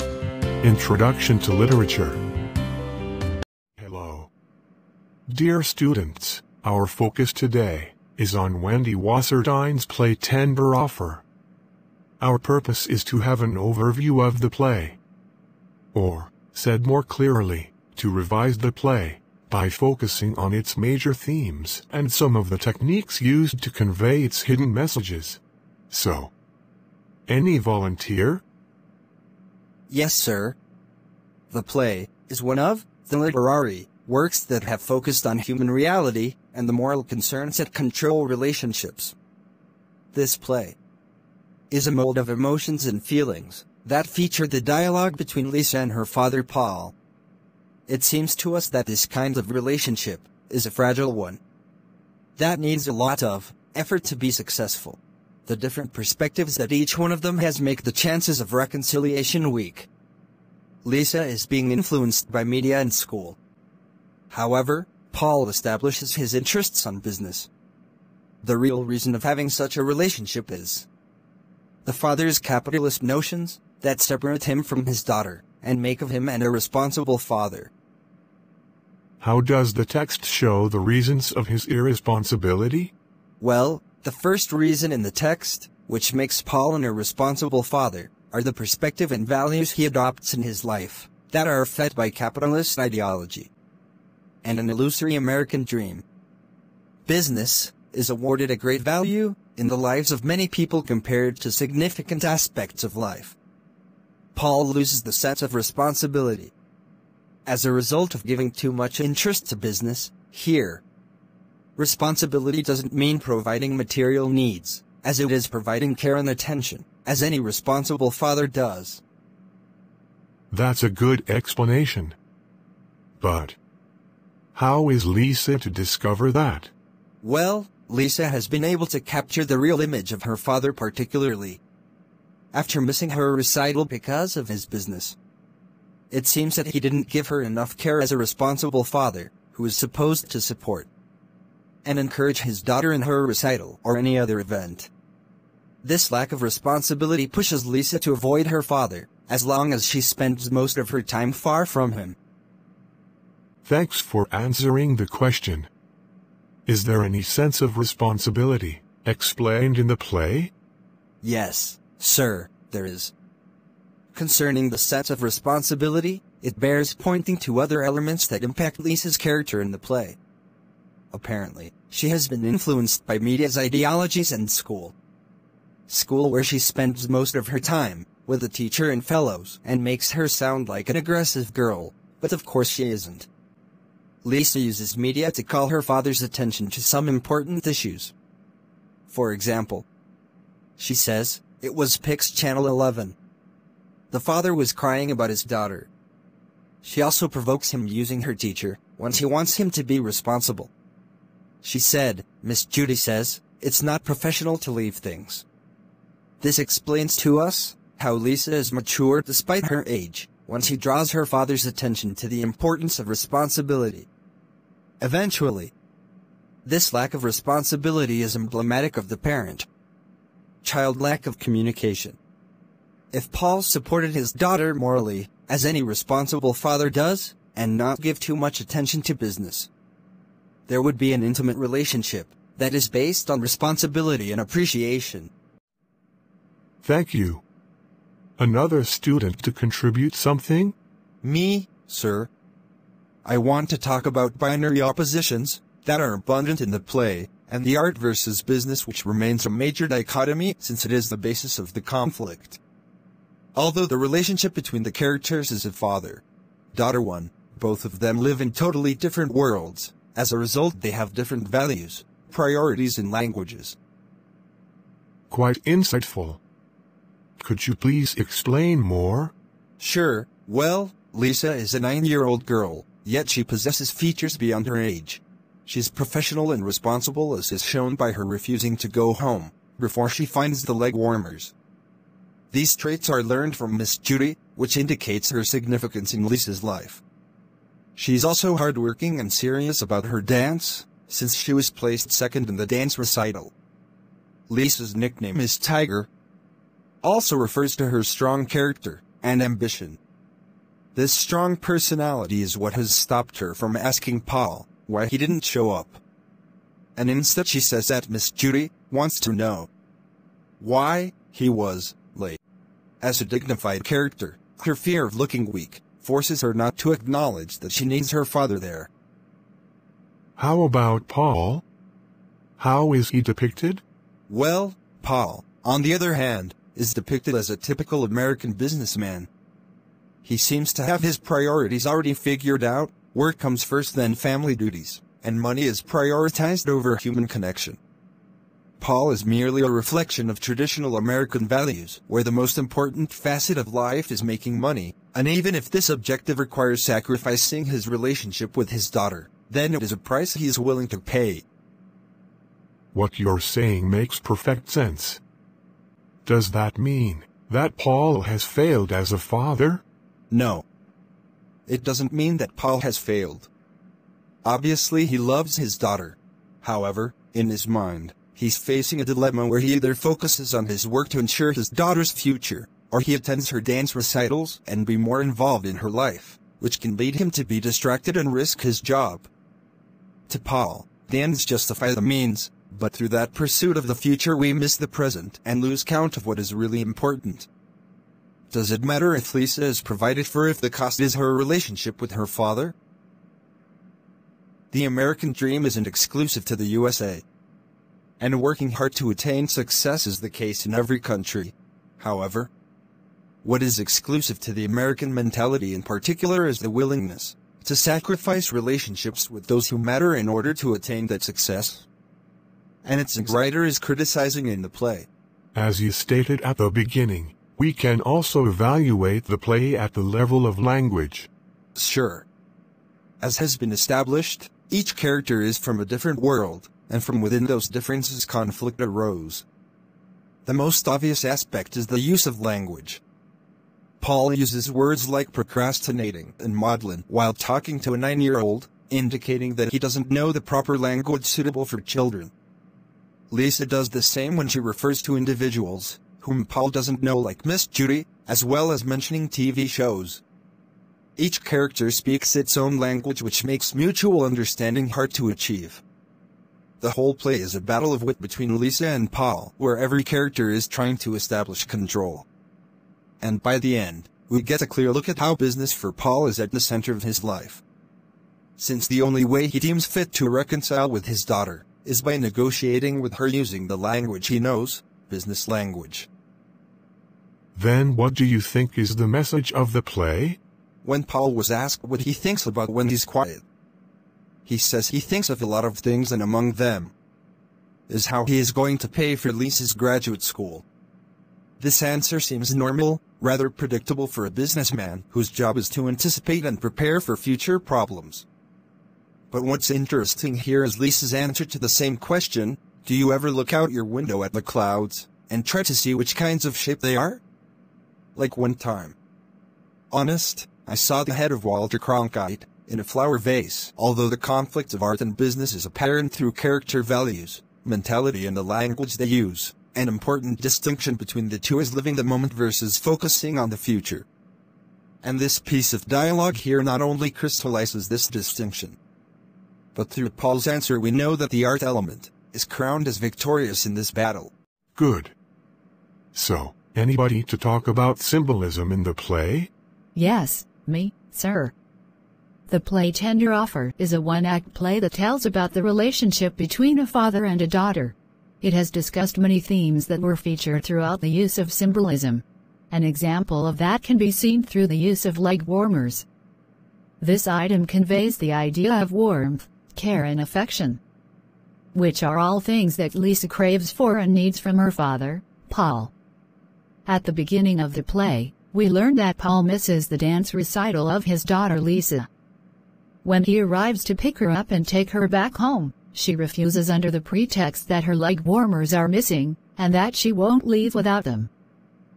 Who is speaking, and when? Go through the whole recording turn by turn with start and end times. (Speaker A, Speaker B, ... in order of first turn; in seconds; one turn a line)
Speaker A: 0.6-2.2
Speaker A: 3.8-4.3
Speaker A: 5.3-11.2
Speaker A: 12.2-15.0
Speaker A: 15.9-26.3
Speaker A: 27.3-28.4
Speaker B: 29.9-30.6
Speaker B: 31.5-39.1
Speaker B: 40.1-40.8
Speaker B: 41.7-46.9
Speaker B: 47.9-51.4
Speaker B: 52.4-59.9
Speaker B: 60.8-63.4
Speaker B: 64.3-67.5
Speaker B: 68.4-70.9
Speaker B: 71.8-77.7
Speaker A: 79.2-82.9
Speaker B: 83.4-93.5
Speaker B: 94.4-96.0
Speaker B: 97.1-103.4
Speaker B: 104.3-106.5
Speaker B: 107.5-110.8
Speaker B: 111.8-119.0
Speaker A: 120.5-122.2
Speaker A: 123.2-123.6
Speaker A: 124.5-126.7
Speaker B: 127.2-131.6
Speaker B: 132.5-135.2
Speaker B: 136.1-140.9
Speaker B: 141.8-144.9
Speaker B: 145.8-152.2
Speaker A: 153.6-155.7
Speaker A: 156.7-160.5
Speaker B: 161.2-163.1
Speaker B: 164.1-170.2
Speaker B: 171.1-174.9
Speaker B: 175.9-183.3
Speaker B: 184.2-188.1
Speaker B: 189.1-189.9
Speaker B: 190.8-193.2
Speaker B: 194.1-195.9
Speaker B: 196.8-200.7
Speaker B: 201.6-205.4
Speaker B: 206.4-214.1
Speaker B: 215.0-215.7
Speaker B: 216.7-219.7
Speaker B: 220.6-222.2
Speaker B: 223.1-229.7
Speaker B: 230.7-235.3
Speaker A: 236.8-237.4
Speaker A: 238.4-240.8
Speaker B: 241.2-242.3
Speaker B: 243.2-252.6
Speaker B: 253.6-263.8
Speaker A: 265.3-266.4
Speaker A: 267.4-269.3
Speaker B: 269.8-281.5
Speaker B: 282.5-287.0
Speaker B: 288.0-293.5
Speaker B: 294.5-296.1
Speaker B: 297.0-300.0
Speaker B: 300.9-306.0
Speaker B: 307.0-309.7
Speaker B: 310.6-312.4
Speaker B: 313.0-318.9
Speaker A: 320.4-321.6
Speaker A: 322.6-323.8
Speaker B: 324.3-329.3
Speaker B: 330.2-337.8
Speaker B: 338.8-351.4
Speaker A: 352.9-355.2
Speaker A: 356.2-359.8
Speaker B: 360.3-360.6
Speaker B: 361.7-363.5
Speaker B: 364.4-379.3
Speaker B: 380.3-387.5
Speaker B: 388.5-392.7
Speaker B: 394.7-397.2
Speaker B: 398.2-402.5
Speaker B: 403.4-411.9
Speaker B: 412.8-415.1
Speaker A: 415.5-421.3
Speaker B: 421.8-422.2
Speaker B: 423.2-429.4
Speaker B: 430.4-433.0
Speaker B: 434.0-442.3
Speaker B: 443.3-450.2
Speaker B: 451.2-455.8
Speaker B: 456.8-462.3
Speaker B: 463.2-467.6
Speaker B: 468.6-476.1
Speaker A: 477.6-480.4
Speaker B: 480.8-483.4
Speaker B: 484.4-486.9
Speaker B: 487.9-490.6
Speaker B: 491.6-498.2
Speaker B: 499.3-507.2
Speaker B: 508.2-508.9
Speaker B: 509.9-524.1
Speaker B: 525.0-528.8
Speaker B: 529.8-534.3
Speaker A: 534.8-535.1
Speaker A: 536.1-539.5
Speaker C: 540.0-541.5
Speaker C: 542.5-556.1
Speaker C: 557.0-560.8
Speaker C: 561.7-565.9
Speaker C: 566.9-572.1
Speaker C: 573.0-581.3